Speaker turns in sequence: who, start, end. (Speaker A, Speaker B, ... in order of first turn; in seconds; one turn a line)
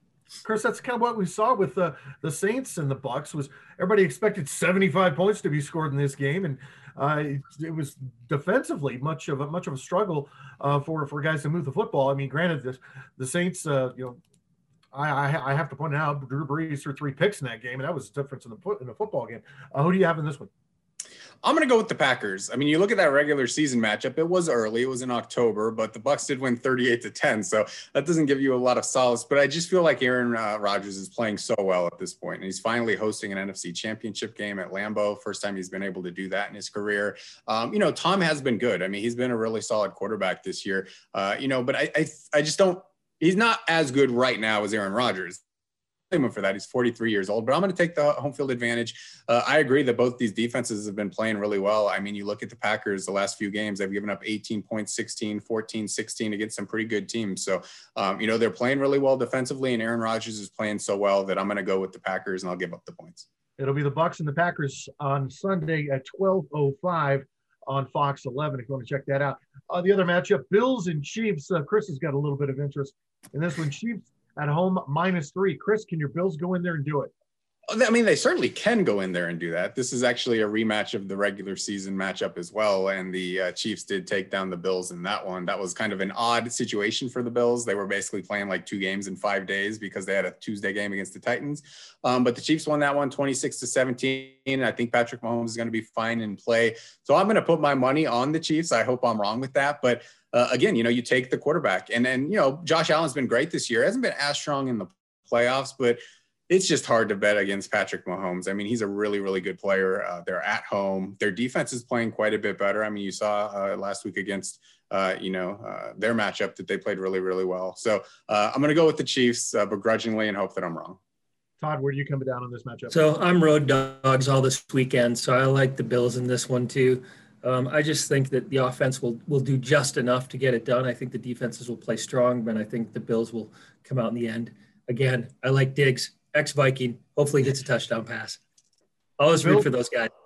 Speaker A: 0.4-14.2
Speaker A: 14.9-20.5
Speaker B: 21.4-45.4
Speaker B: 46.1-63.2
Speaker A: 63.6-77.1
Speaker B: 77.7-121.0
Speaker A: 121.6-123.0
Speaker C: 122.9-138.4
Speaker C: 139.2-140.1
Speaker A: 139.4-139.7